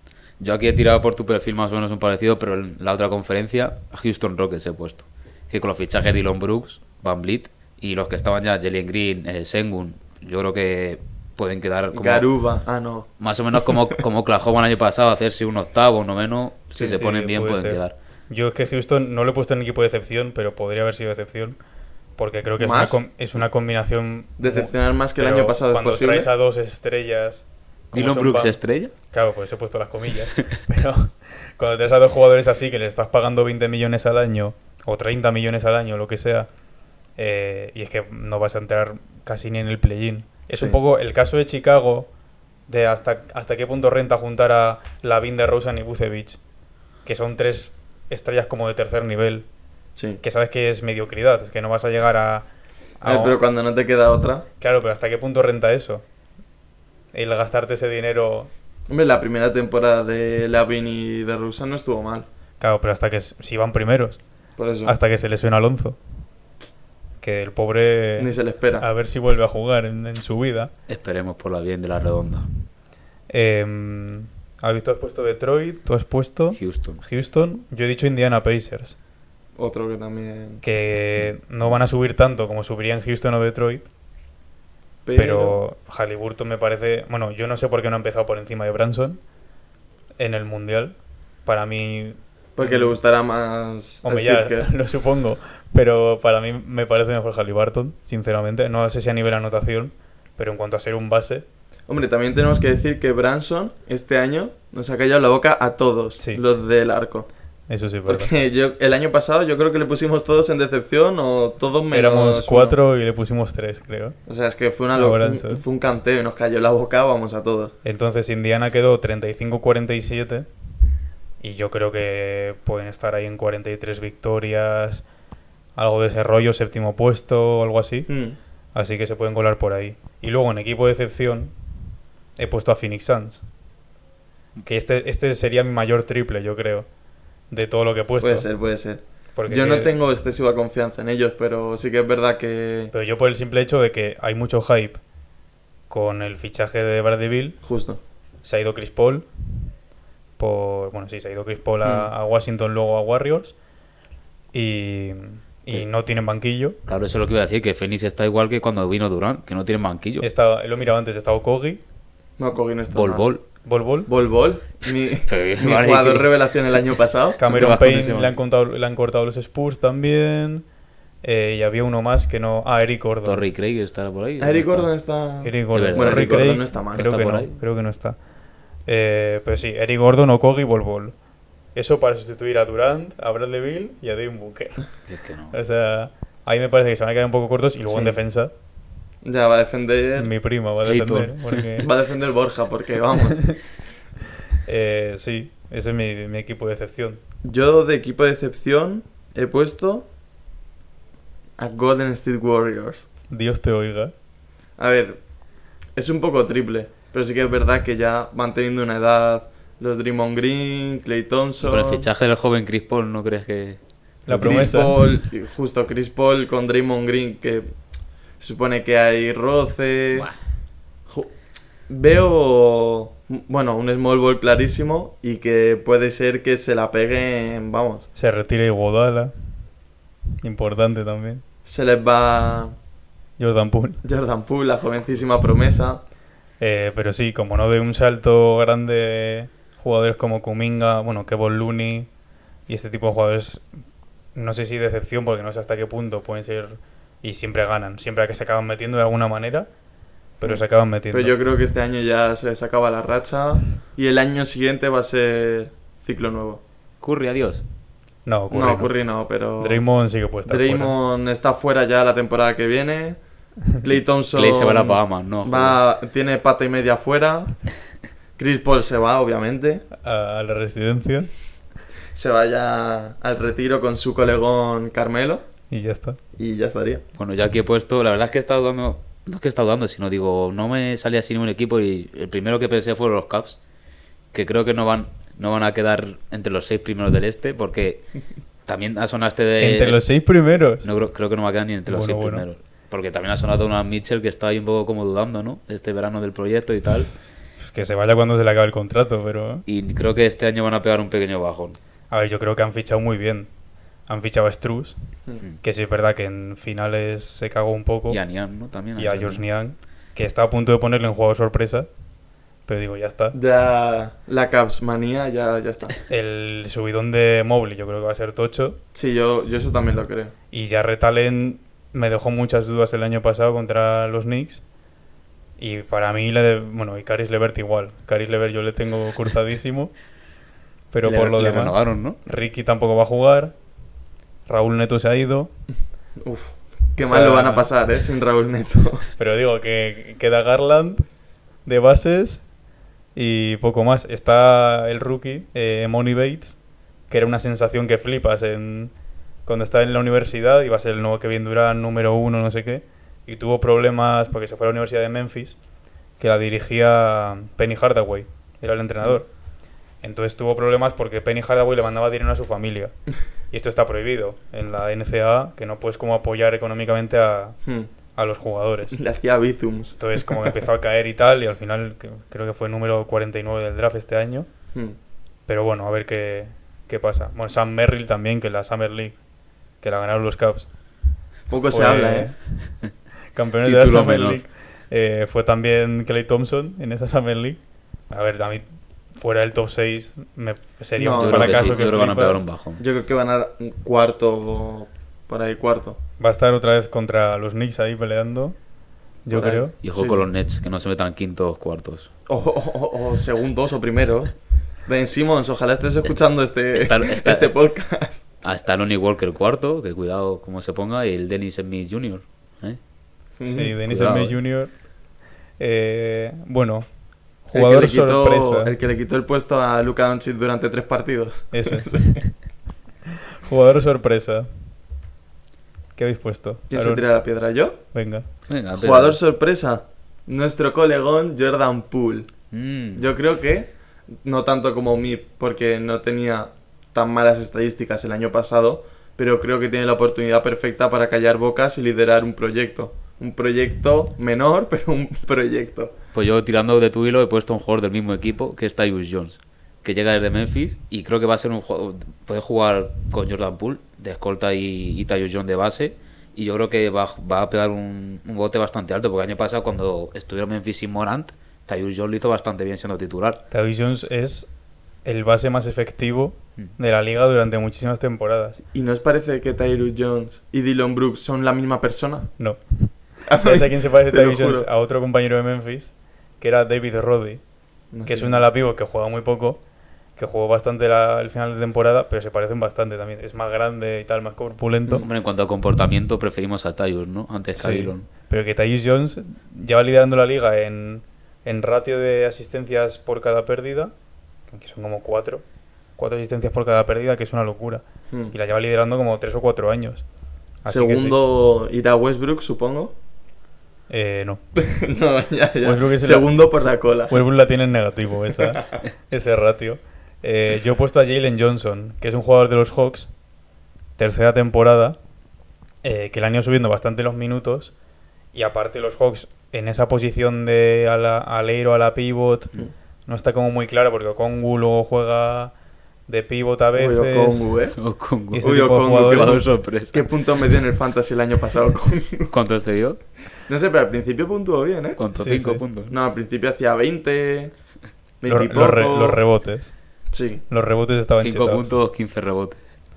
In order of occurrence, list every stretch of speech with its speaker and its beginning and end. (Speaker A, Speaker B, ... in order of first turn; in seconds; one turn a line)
Speaker A: 0.4-12.3
Speaker B: 11.9-13.8
Speaker A: 13.2-17.9
Speaker B: 16.7-17.0
Speaker C: 16.8-21.6
Speaker C: 22.2-28.6
Speaker B: 22.6-23.0
Speaker B: 24.4-26.3
Speaker A: 27.9-28.9
Speaker C: 29.1-36.5
Speaker C: 37.2-42.1
Speaker B: 40.5-40.8
Speaker C: 42.7-46.4
Speaker C: 47.0-49.5
Speaker C: 50.2-52.5
Speaker C: 53.0-53.4
Speaker B: 53.0-54.5
Speaker C: 54.6-56.0
Speaker C: 57.1-58.5
Speaker B: 58.9-62.3
Speaker C: 62.6-64.2
Speaker B: 64.6-65.0
Speaker C: 64.8-66.0
Speaker C: 67.2-70.7
Speaker B: 68.2-68.8
Speaker A: 70.9-72.5
Speaker C: 73.3-79.0
Speaker A: 76.5-77.0
Speaker B: 79.6-80.6
Speaker C: 80.6-83.8
Speaker B: 85.0-85.6
Speaker C: 85.1-89.2
Speaker C: 90.2-93.0
Speaker B: 92.5-94.7
Speaker C: 94.0-101.5
Speaker B: 101.9-107.3
Speaker C: 107.7-108.3
Speaker B: 108.0-112.8
Speaker C: 111.9-114.2
Speaker B: 114.3-117.7
Speaker C: 114.9-115.6
Speaker C: 117.8-120.5
Speaker C: 121.4-125.0
Speaker C: 125.8-128.1
Speaker B: 128.1-128.4
Speaker C: 128.7-131.5
Speaker C: 132.4-133.4
Speaker C: 134.6-136.8
Speaker C: 137.5-138.5
Speaker B: 138.2-142.9
Speaker C: 139.3-139.9
Speaker C: 142.9-145.0
Speaker C: 145.9-147.6
Speaker B: 147.6-148.0
Speaker C: 148.4-149.3
Speaker C: 150.4-153.6
Speaker B: 151.8-152.1
Speaker C: 154.5-156.8
Speaker A: 156.8-160.3
Speaker C: 160.2-161.8
Speaker B: 162.4-163.3
Speaker A: 162.9-163.4
Speaker C: 163.6-164.1
Speaker B: 164.1-167.8
Speaker A: 165.3-166.3
Speaker C: 167.4-170.6
Speaker A: 167.5-168.3
Speaker C: 171.2-173.4
Speaker A: 173.2-174.9
Speaker B: 174.4-177.1
Speaker C: 175.4-178.2
Speaker A: 175.7-177.6
Speaker C: 178.9-181.1
Speaker C: 181.7-184.9
Speaker A: 185.1-185.5
Speaker C: 185.5-188.5
Speaker B: 187.9-188.2
Speaker B: 189.2-190.3
Speaker C: 190.2-191.9
Speaker A: 190.8-191.7
Speaker B: 191.8-193.5
Speaker C: 194.6-197.2
Speaker B: 197.4-200.1
Speaker B: 201.6-203.1
Speaker C: 203.3-204.1
Speaker B: 204.8-205.2
Speaker B: 205.9-212.1
Speaker A: 211.6-213.8
Speaker C: 214.2-215.2
Speaker B: 214.3-217.7
Speaker B: 218.4-220.3
Speaker B: 221.9-228.0
Speaker C: 228.1-229.3
Speaker C: 230.4-231.4
Speaker B: 231.6-232.7
Speaker C: 233.4-234.0
Speaker B: 234.0-236.0
Speaker C: 236.6-242.1
Speaker C: 242.7-243.6
Speaker C: 244.3-249.7
Speaker C: 250.4-251.3
Speaker B: 250.4-256.6
Speaker A: 257.0-257.6
Speaker C: 258.2-258.9
Speaker B: 258.5-259.8
Speaker C: 259.6-260.9
Speaker B: 260.4-263.2
Speaker B: 263.8-267.6
Speaker A: 264.3-265.8
Speaker B: 268.4-269.8
Speaker C: 270.0-271.3
Speaker B: 272.1-275.4
Speaker C: 275.7-276.2
Speaker B: 276.4-277.0
Speaker A: 277.1-283.6
Speaker A: 284.3-288.1
Speaker A: 288.6-290.0
Speaker C: 289.6-290.9
Speaker A: 290.8-297.1
Speaker C: 291.9-292.4
Speaker C: 297.6-299.6
Speaker A: 299.6-301.8
Speaker C: 302.1-303.5
Speaker C: 304.1-305.0
Speaker C: 305.6-308.2
Speaker A: 308.1-309.4
Speaker C: 309.0-311.9
Speaker C: 312.6-313.4
Speaker B: 313.3-315.9
Speaker C: 316.1-318.8
Speaker B: 318.9-320.3
Speaker C: 320.5-324.6
Speaker C: 325.6-329.9
Speaker C: 330.9-333.5
Speaker A: 331.1-332.2
Speaker C: 334.5-335.5
Speaker B: 336.2-339.1
Speaker C: 337.0-337.7
Speaker C: 339.2-341.1
Speaker C: 341.6-342.4
Speaker C: 343.1-346.6
Speaker C: 347.1-348.9
Speaker C: 349.4-355.6
Speaker C: 356.2-359.3
Speaker C: 360.0-362.9
Speaker C: 363.5-367.6
Speaker C: 368.1-369.0
Speaker B: 368.9-370.6
Speaker C: 370.0-374.5
Speaker C: 375.5-379.1
Speaker C: 379.8-380.7
Speaker B: 381.5-382.3
Speaker C: 381.7-382.4
Speaker C: 383.3-387.6
Speaker A: 383.6-384.4
Speaker C: 388.1-392.4
Speaker B: 391.0-392.2
Speaker A: 391.1-392.8
Speaker B: 392.8-396.0
Speaker C: 396.2-398.6
Speaker C: 399.2-399.7
Speaker B: 399.3-400.2
Speaker A: 399.8-402.1
Speaker B: 402.3-404.3
Speaker B: 404.9-408.2
Speaker A: 406.7-407.5
Speaker A: 408.4-412.8
Speaker B: 413.4-413.7
Speaker C: 413.4-414.8
Speaker A: 413.9-414.4
Speaker C: 415.6-416.9
Speaker C: 417.4-418.7
Speaker B: 417.5-422.2
Speaker C: 421.5-422.3
Speaker C: 423.4-424.5
Speaker C: 425.9-427.0
Speaker B: 426.7-427.8
Speaker C: 427.9-428.2
Speaker A: 428.5-429.2
Speaker B: 428.7-432.3
Speaker A: 432.5-433.0
Speaker B: 432.9-433.7
Speaker B: 434.2-445.9
Speaker A: 446.1-463.4
Speaker C: 463.5-464.5
Speaker C: 465.0-468.6
Speaker B: 468.7-472.3
Speaker C: 472.4-477.4
Speaker B: 473.2-474.6
Speaker B: 477.9-478.4
Speaker C: 478.0-479.6
Speaker C: 480.2-485.1
Speaker A: 485.0-488.1
Speaker C: 487.6-493.9
Speaker C: 494.5-495.4
Speaker C: 496.0-500.0
Speaker C: 500.6-501.2
Speaker B: 500.7-502.9
Speaker C: 503.9-504.4
Speaker B: 504.5-507.1
Speaker C: 505.6-506.3
Speaker C: 507.1-513.1
Speaker C: 514.0-515.0
Speaker C: 515.8-517.7
Speaker C: 518.3-525.5
Speaker C: 526.1-527.5
Speaker B: 526.7-527.8
Speaker A: 527.8-530.2
Speaker C: 528.3-529.4
Speaker B: 528.4-532.3
Speaker A: 532.3-533.0
Speaker B: 533.5-535.0
Speaker A: 535.0-535.9
Speaker C: 535.1-535.6
Speaker B: 535.9-537.5
Speaker B: 538.2-539.2
Speaker C: 538.3-539.7
Speaker B: 540.1-540.4
Speaker C: 540.5-541.7
Speaker A: 541.2-542.6